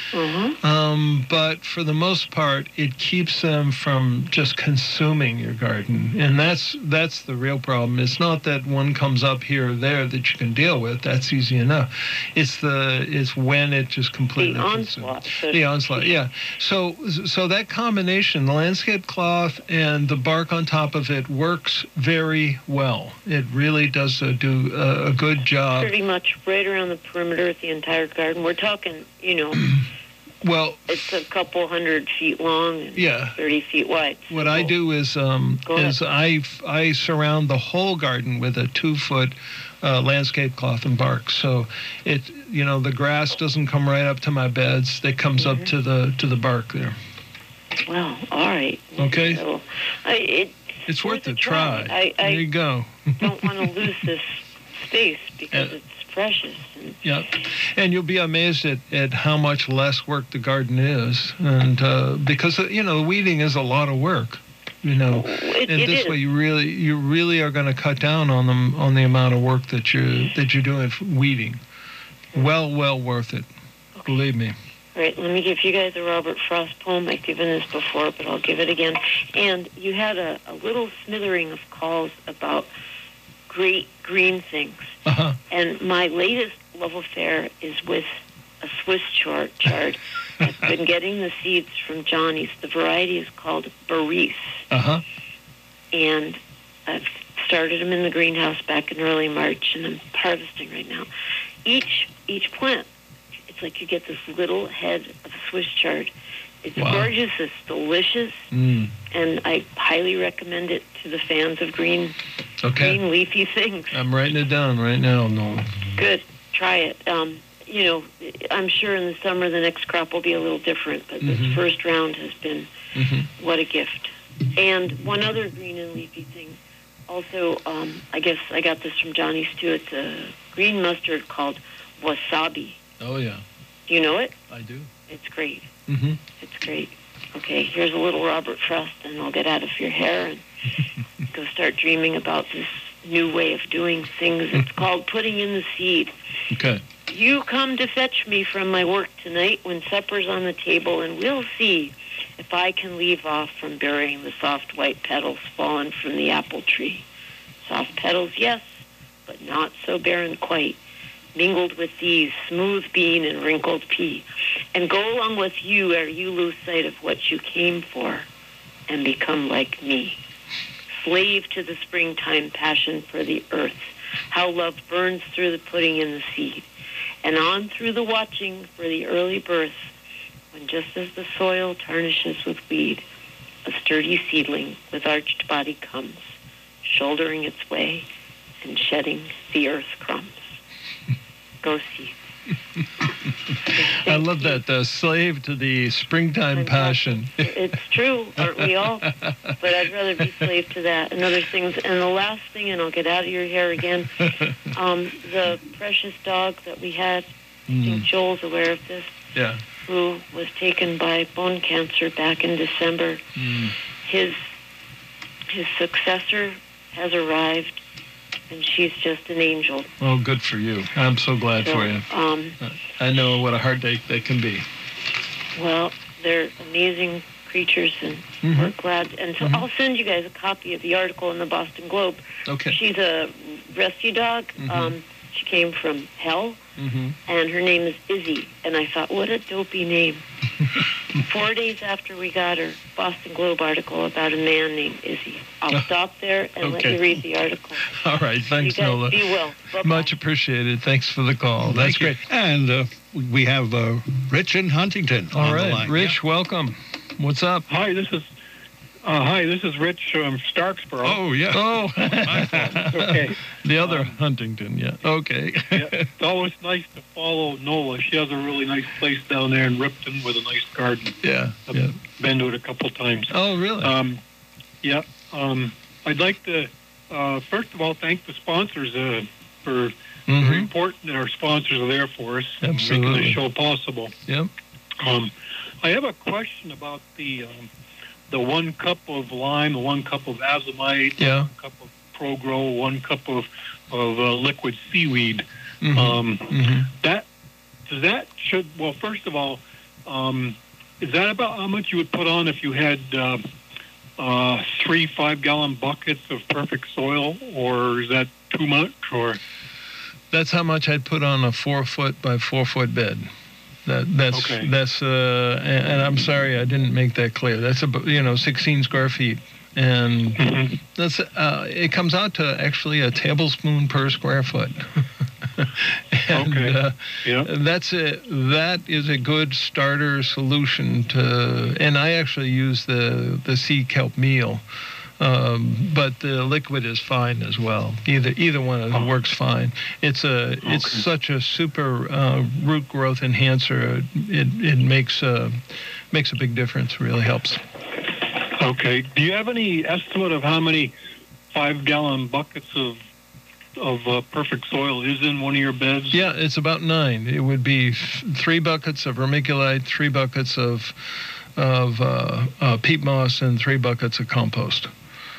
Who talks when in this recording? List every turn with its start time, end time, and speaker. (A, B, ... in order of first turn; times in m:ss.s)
0:00.1-0:00.6 A
0:00.6-0:25.9 B
0:14.4-0:16.2 A
0:25.8-0:29.8 A
0:30.4-0:31.0 B
0:30.9-0:34.7 A
0:33.0-0:33.4 B
0:34.3-0:47.0 B
0:35.7-0:36.0 A
0:45.4-0:45.7 A
0:47.9-0:52.5 A
0:49.0-0:49.4 B
0:50.9-0:53.7 B
0:53.2-0:57.0 A
0:55.5-0:55.8 B
0:57.0-1:11.6 B
1:05.1-1:06.2 A
1:12.3-1:13.5 B
1:14.1-1:14.6 B
1:15.0-1:22.7 A
1:23.5-1:25.0 A
1:25.1-1:25.4 B
1:25.5-1:28.1 A
1:28.6-1:34.6 A
1:34.7-1:35.0 B
1:35.9-1:41.1 A
1:41.6-1:42.9 A
1:43.5-1:46.1 A
1:46.6-1:48.5 A
1:46.8-1:47.1 B
1:48.5-1:48.9 B
1:49.1-1:52.2 A
1:52.6-1:53.0 B
1:52.7-1:54.0 A
1:53.9-1:55.7 B
1:56.0-2:02.7 A
2:01.2-2:01.6 B
2:03.0-2:03.3 B
2:03.4-2:12.8 A
2:13.0-2:13.4 B
2:13.9-2:14.4 A
2:14.5-2:14.9 B
2:15.1-2:15.7 A
2:15.9-2:16.2 B
2:16.4-2:20.4 A
2:21.3-2:26.1 A
2:26.5-2:26.8 B
2:27.1-2:37.0 A
2:37.6-2:40.8 A
2:41.3-2:48.3 A
2:48.9-2:50.2 A
2:51.0-2:56.6 A
2:57.2-2:59.9 A
3:00.5-3:03.0 A
3:03.6-3:06.3 A
3:06.8-3:08.1 A
3:08.6-3:10.5 A
3:11.6-3:12.2 A
3:13.7-3:14.6 A
3:14.0-3:17.5 B
3:16.5-3:29.2 A
3:19.0-3:19.6 B
3:20.2-3:20.5 B
3:24.2-3:24.5 B
3:27.7-3:28.1 B
3:29.4-3:29.6 B
3:29.8-3:33.2 A
3:33.4-3:33.8 B
3:34.0-3:34.4 A
3:35.5-3:37.8 A
3:38.5-3:39.9 A
3:40.0-3:42.1 B
3:41.6-3:42.6 A
3:42.6-3:44.6 B
3:45.6-3:56.6 A
3:48.4-3:48.8 B
3:49.4-3:49.7 B
3:52.5-3:52.8 B
3:54.6-3:55.0 B
3:56.8-3:57.2 B
3:57.3-4:00.2 A
4:01.2-4:08.0 A
4:06.6-4:07.0 B
4:07.9-4:12.2 B
4:08.6-4:10.1 A
4:11.6-4:16.2 C
4:15.3-4:17.7 B
4:17.7-4:18.3 D
4:19.0-4:21.2 D
4:21.0-4:22.9 C
4:21.5-4:26.1 B
4:22.7-4:24.2 D
4:25.7-4:34.2 D
4:31.2-4:32.0 B
4:33.3-4:34.0 B
4:34.8-4:44.1 D
4:40.3-4:40.7 B
4:42.6-4:43.4 B
4:45.0-4:47.7 D
4:48.3-4:57.3 D
4:51.2-4:51.5 B
4:55.8-4:56.9 B
4:57.9-5:03.4 D
5:04.2-5:09.4 D
5:10.3-5:13.3 B
5:13.9-5:34.6 B
5:14.3-5:14.7 D
5:20.4-5:20.8 D
5:26.3-5:27.5 D
5:35.2-5:47.6 B
5:40.6-5:41.0 D
5:48.6-5:50.9 D
5:51.5-5:53.0 D
5:53.8-5:56.2 D
5:56.1-6:04.9 B